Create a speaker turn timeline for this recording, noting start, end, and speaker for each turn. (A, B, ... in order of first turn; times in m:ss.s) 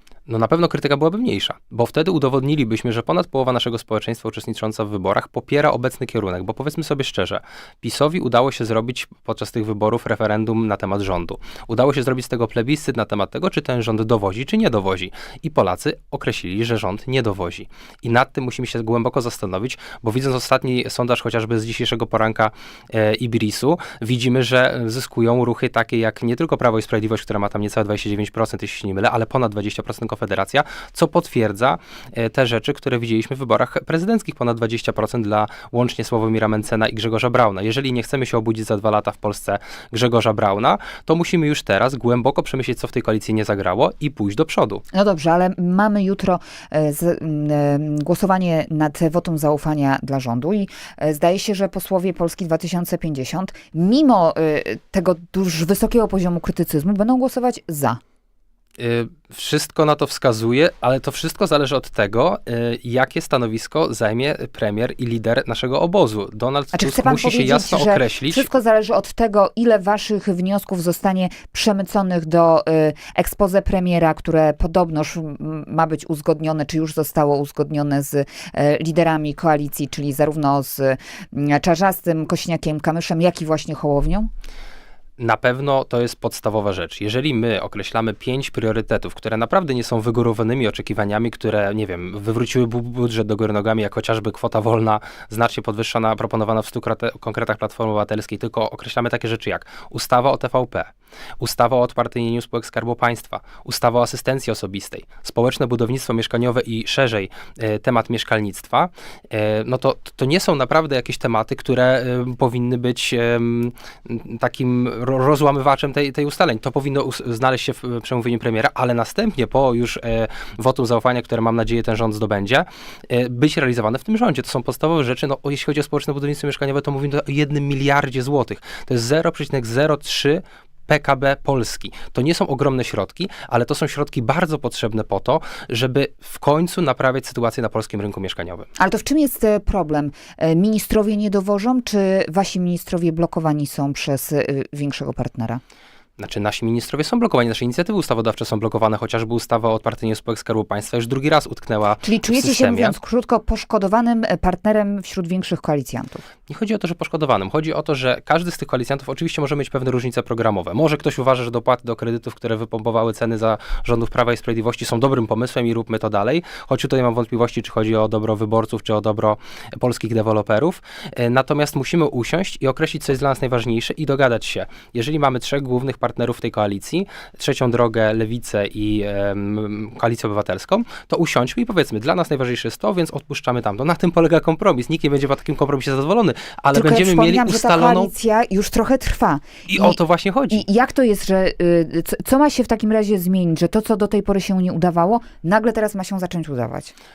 0:00.3-0:44.8 A
0:44.9-0:58.0 B
0:58.8-1:08.5 A
1:06.7-1:24.3 B
1:25.2-2:18.7 A
2:18.8-2:25.6 B
2:26.2-2:33.0 A
2:32.0-2:36.2 B
2:36.5-3:08.1 A
3:06.7-3:10.0 B
3:09.7-3:10.6 A
3:10.5-3:16.9 B